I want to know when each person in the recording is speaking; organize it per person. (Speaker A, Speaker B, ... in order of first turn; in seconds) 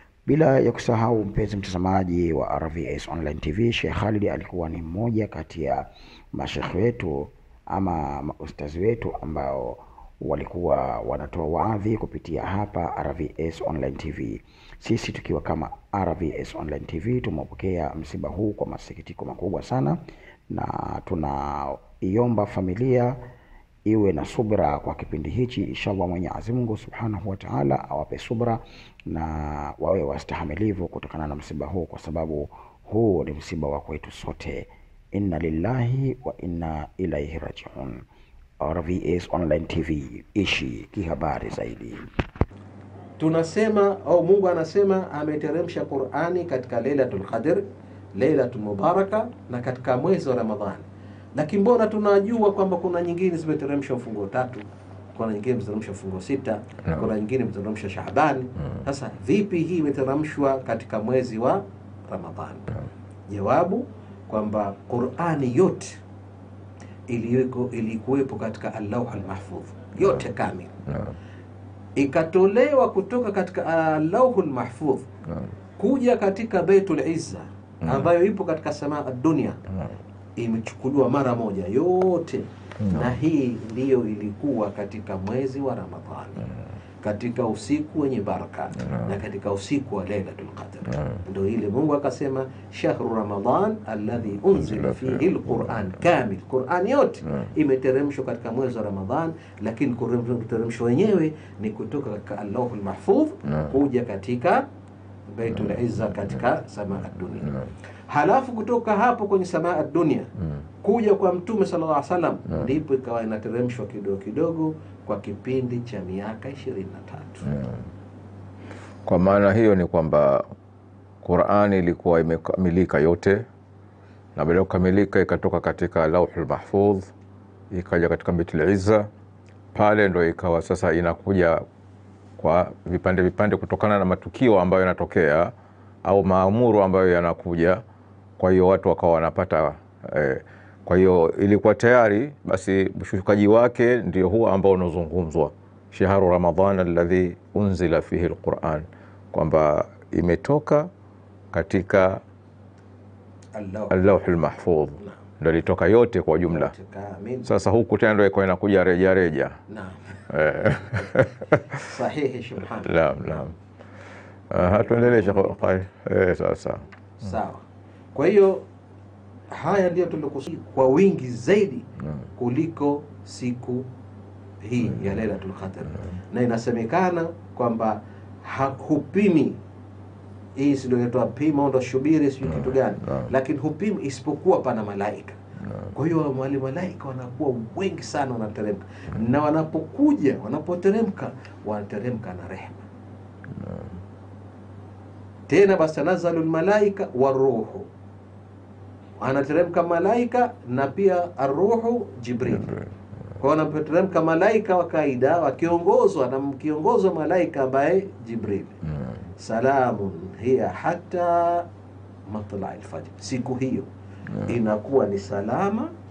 Speaker A: 0.2-20.0, 20.5-23.2, 23.9-38.0, 38.6-42.0
Speaker B: 43.2-47.6, 48.1-62.7, 63.3-66.0, 67.1-70.7, 72.0-75.0, 75.8-79.6, 80.4-86.5, 87.0-104.7, 105.3-107.5, 108.1-110.3, 110.8-117.5, 153.6-154.0, 156.5-157.5, 159.7-160.2, 161.8-163.5, 164.6-165.8, 167.2-168.6, 169.5-173.9, 174.6-179.6, 180.6-185.4, 185.9-192.8, 195.5-197.9, 199.2-202.8, 203.4-208.8, 209.4-211.7, 212.3-213.9, 214.4-215.9
Speaker C: 119.0-120.4, 121.2-123.4, 124.3-127.1, 127.7-129.1, 129.7-131.6, 132.4-135.5, 136.0-137.8, 138.4-150.9, 151.5-152.2, 153.9-156.7, 157.5-159.6, 160.3-161.6, 162.9-163.5, 164.5-166.8